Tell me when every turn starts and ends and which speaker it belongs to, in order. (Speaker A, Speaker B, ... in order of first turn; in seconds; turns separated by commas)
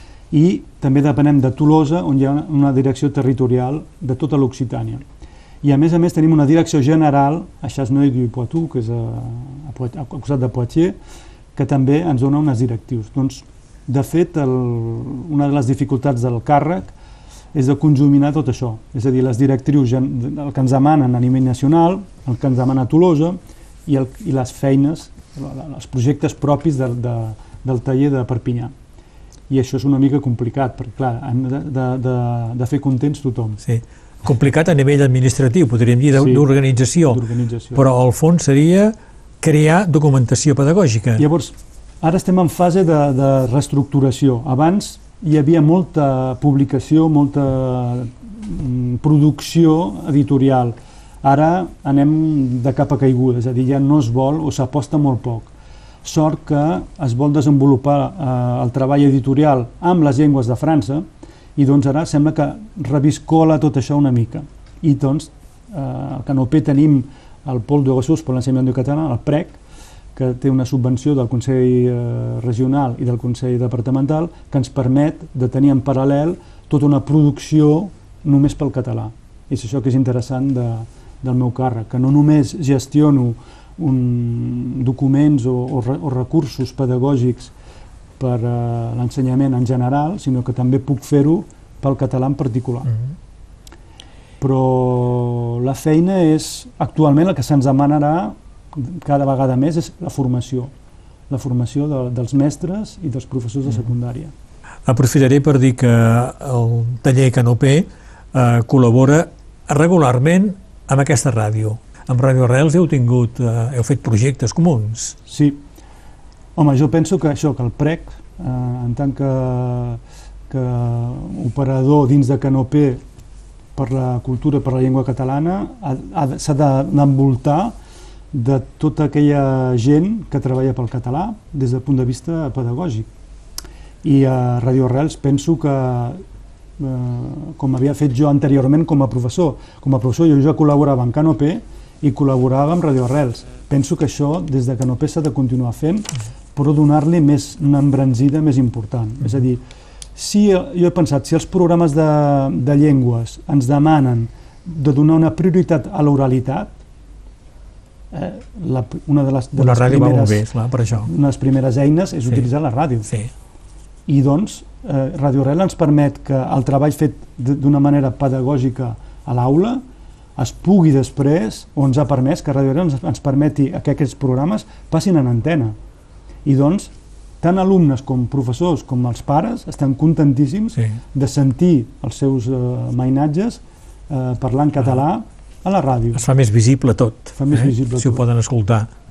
Speaker A: 0.3-5.0, Speaker A: 5.6-10.9, Speaker A: 11.5-16.9, Speaker A: 17.5-28.7, Speaker A: 29.5-33.6, Speaker B: 33.6-37.2, Speaker A: 36.1-37.9, Speaker B: 37.7-41.2, Speaker A: 41.2-55.5, Speaker A: 56.0-69.6, Speaker A: 70.1-87.5, Speaker A: 88.2-92.9, Speaker A: 94.4-100.7, Speaker A: 101.3-104.3, Speaker B: 104.8-115.2, Speaker A: 115.3-115.6, Speaker A: 116.5-123.0, Speaker A: 123.8-127.8, Speaker A: 128.3-133.1, Speaker A: 134.0-136.2, Speaker A: 136.8-149.6, Speaker A: 150.2-156.7, Speaker A: 158.1-160.4, Speaker B: 159.6-161.1, Speaker A: 161.0-163.1, Speaker A: 164.1-169.8, Speaker A: 170.4-175.7, Speaker A: 176.4-186.2, Speaker B: 186.1-188.9, Speaker A: 187.3-188.2